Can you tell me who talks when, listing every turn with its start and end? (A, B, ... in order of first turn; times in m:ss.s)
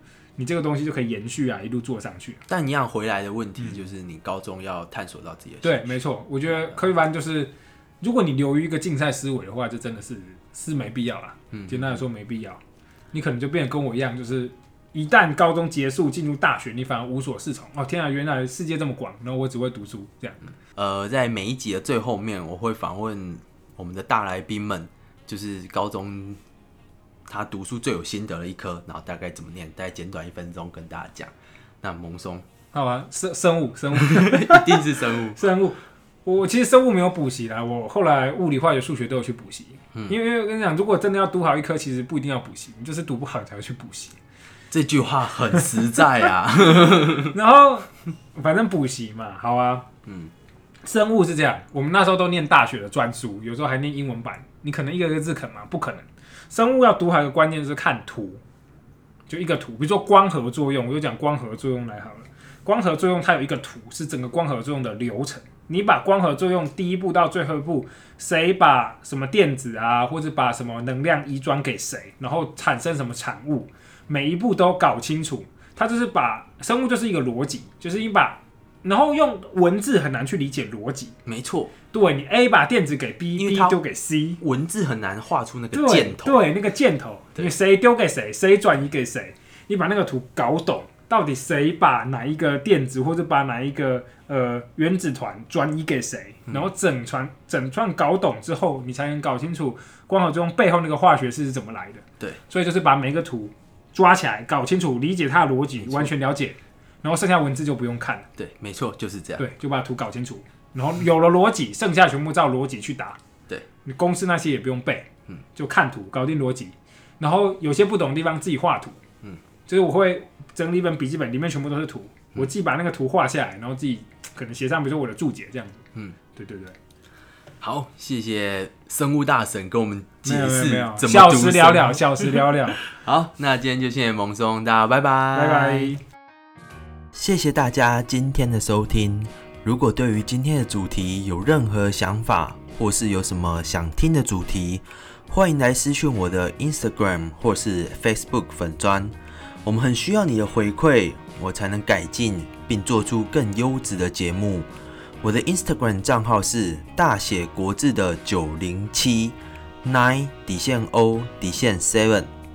0:00.4-0:02.4 A
0:02.5-0:06.0 B
0:05.6-0:12.6 A
0:11.5-0:12.0 B
0:13.1-0:20.4 A
0:20.8-0:26.4 B
0:27.3-0:32.4 B
0:32.7-0:44.2 A
0:33.9-0:35.4 B
0:44.7-0:47.4 B
0:47.0-0:49.9 A
0:50.1-0:50.3 B
0:50.8-0:58.4 A
0:59.3-1:21.2 A
1:21.3-1:21.7 B
1:21.9-1:24.4 A
1:23.4-1:23.8 B
1:24.4-1:26.4 B
1:25.7-1:48.3 A
1:45.8-1:46.1 B
1:48.4-1:49.5 B
1:49.4-1:53.2 A
1:53.8-1:59.0 A
1:59.7-2:05.8 A
2:06.3-2:06.8 A
2:07.6-2:16.0 B
2:10.2-2:12.8 A
2:15.3-2:16.0 A
2:17.1-2:29.1 B
2:29.6-2:34.7 B
2:35.2-2:42.3 B